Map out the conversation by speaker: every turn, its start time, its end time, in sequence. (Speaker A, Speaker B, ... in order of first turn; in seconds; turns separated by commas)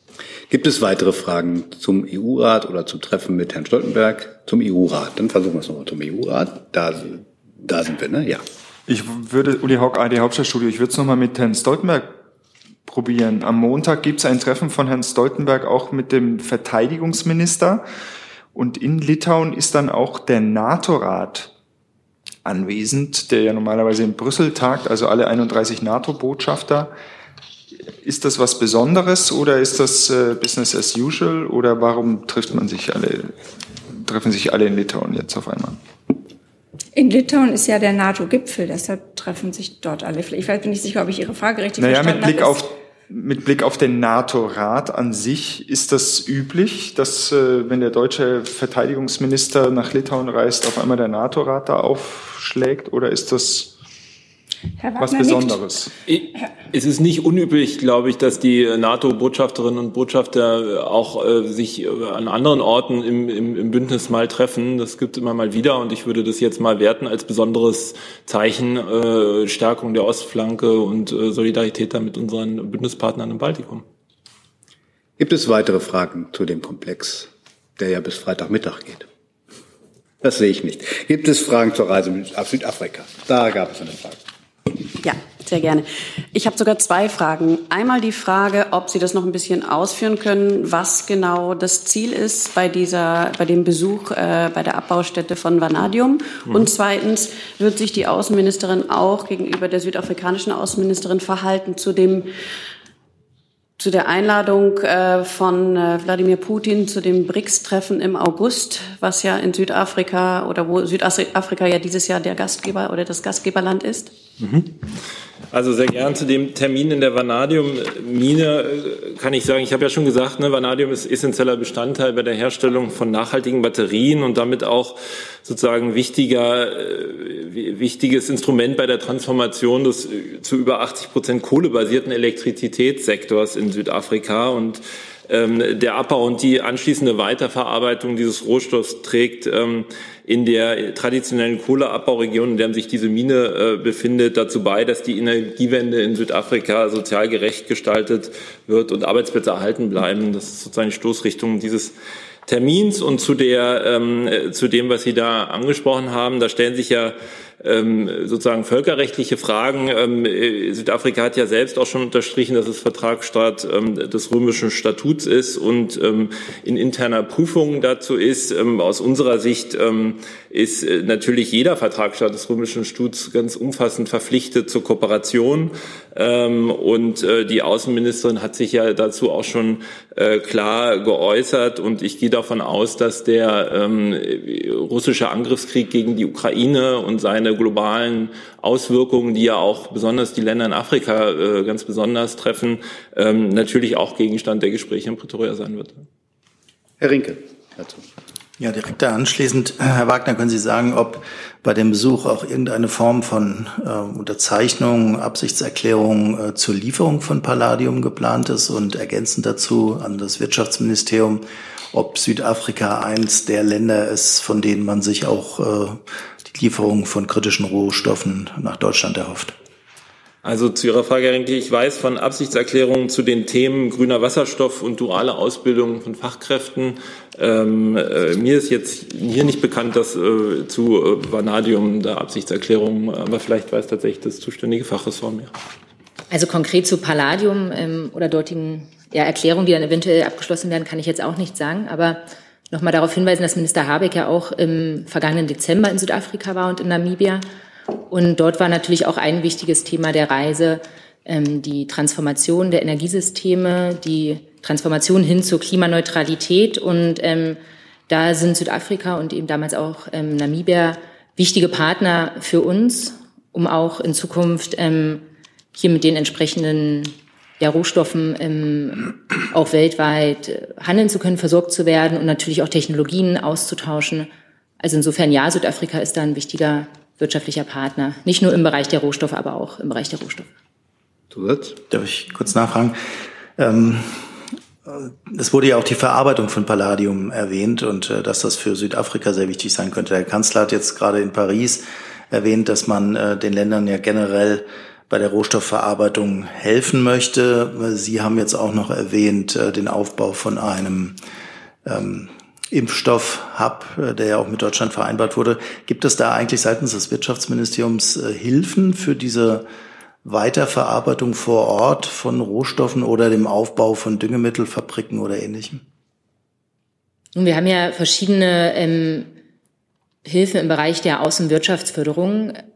Speaker A: 0.5-8.4, Speaker B: 8.9-12.1, Speaker B: 12.9-17.8, Speaker B: 18.5-21.5, Speaker B: 22.4-26.9, Speaker B: 28.0-33.4, Speaker B: 34.0-35.8, Speaker C: 36.9-42.6, Speaker B: 41.8-53.7, Speaker C: 54.8-55.6, Speaker B: 55.0-55.9, Speaker D: 56.1-73.8, Speaker A: 75.2-79.0, Speaker A: 80.2-84.2, Speaker E: 85.0-102.3, Speaker E: 103.8-114.1, Speaker D: 115.5-151.9, Speaker D: 152.4-196.0, Speaker A: 197.0-198.0, Speaker F: 198.6-219.5, Speaker D: 220.4-235.5, Speaker G: 236.3-247.4, Speaker G: 248.1-265.2, Speaker G: 265.7-274.3, Speaker G: 274.8-280.5, Speaker A: 281.3-281.8, Speaker F: 281.9-283.0, Speaker F: 283.6-301.2, Speaker F: 301.8-309.7, Speaker F: 310.2-315.8, Speaker G: 317.3-319.3, Speaker G: 320.2-322.6